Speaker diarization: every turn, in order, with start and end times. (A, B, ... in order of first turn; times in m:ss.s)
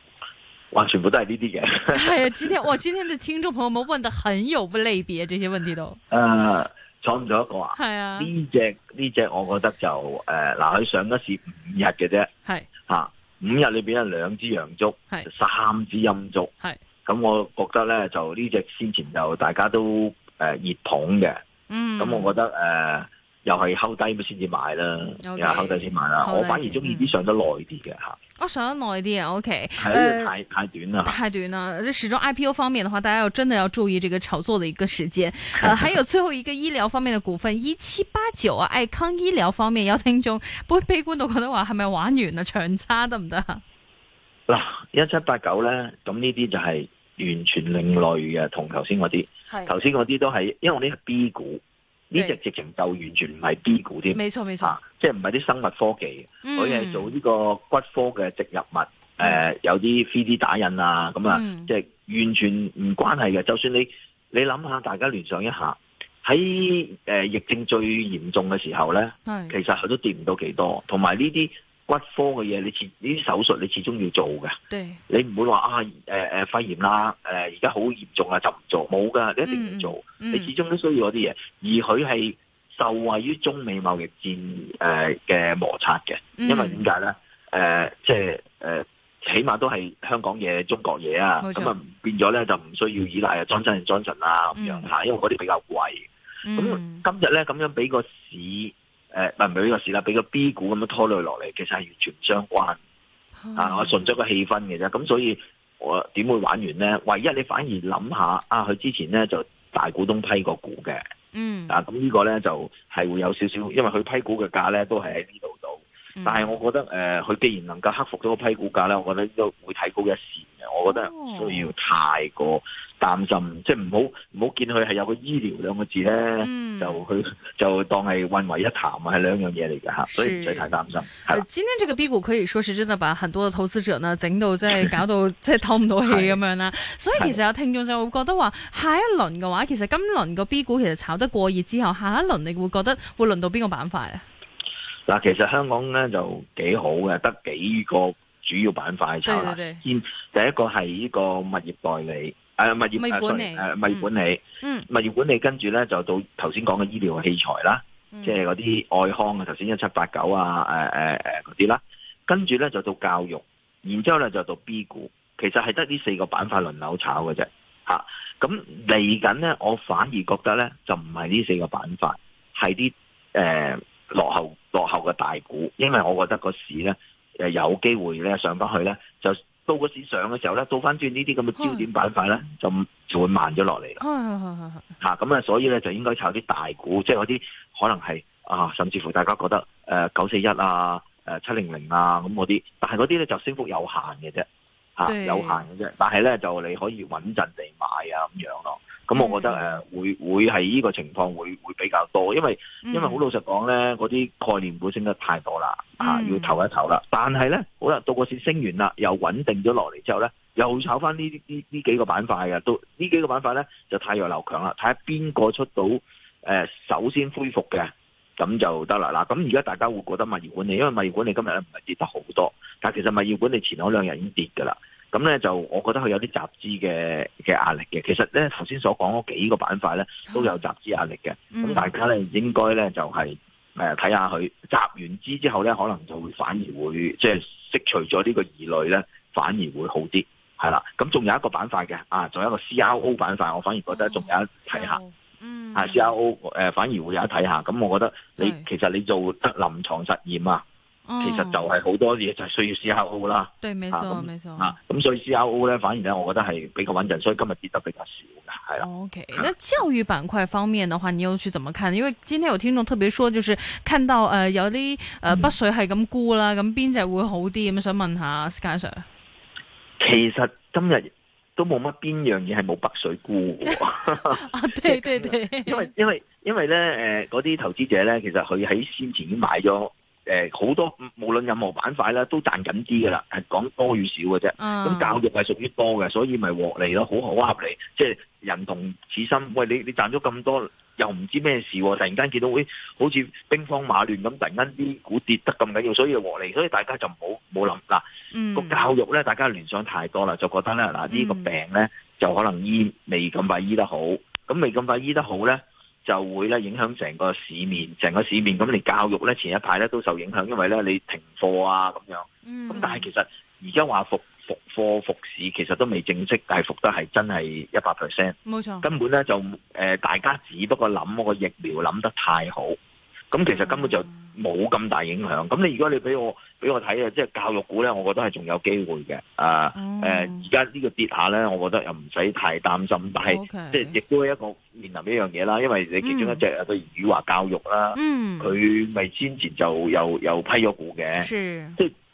0:00.7-0:02.6 A
0:01.9-0:06.0 B
0:06.1-0:12.3 A
0:07.8-0:08.3 B
0:12.9-0:16.5 A
0:17.1-0:21.4 A
0:21.7-0:22.4 B
0:22.0-0:28.2 A
0:25.2-0:27.1 B
0:28.4-0:30.3 B
0:29.8-0:31.2 A
0:31.0-0:43.6 B
0:35.6-0:35.9 A
0:44.5-1:14.6 A
0:49.5-0:49.8 B
0:54.1-0:54.8 B
0:56.4-0:57.1 B
1:01.3-1:01.7 B
1:09.3-1:09.6 B
1:14.7-1:15.0 B
1:15.1-1:42.8 A
1:19.4-1:20.5 B
1:26.4-1:26.8 B
1:31.4-1:31.7 B
1:34.6-1:34.9 B
1:36.4-1:37.0 B
1:43.4-1:44.0 B
1:43.6-1:51.0 A
1:51.3-1:51.8 B
1:51.7-2:11.4 A
1:56.2-1:56.6 B
2:00.9-2:01.7 B
2:06.4-2:07.0 B
2:10.1-2:10.7 B
2:11.3-2:24.2 B
2:16.1-2:16.4 A
2:25.1-3:04.0 A
2:29.2-2:29.8 B
2:33.0-2:34.1 B
2:34.6-2:34.9 B
2:38.1-2:38.4 B
3:01.6-3:01.9 B
3:04.0-3:04.9 B
3:05.0-3:14.5 A
3:15.0-4:05.0 A
3:15.1-3:15.6 B
3:19.1-3:19.8 B
3:22.8-3:23.2 B
3:26.0-3:26.6 B
3:50.3-3:50.6 B
3:51.5-3:51.9 B
4:03.9-4:06.1 B
4:05.8-4:10.6 A
4:08.4-4:08.7 B
4:11.1-4:11.6 B
4:11.2-4:19.5 A
4:13.6-4:14.8 B
4:18.8-4:29.1 B
4:30.0-5:22.8 A
4:34.3-4:35.9 B
4:44.6-4:45.2 B
4:58.3-4:58.8 B
5:01.1-5:01.5 B
5:12.4-5:13.1 B
5:18.5-5:18.9 B
5:23.3-5:41.9 A
5:23.4-5:24.3 B
5:29.8-5:30.5 B
5:33.2-5:34.0 B
5:36.0-5:36.4 B
5:38.0-5:38.6 B
5:41.2-5:41.8 B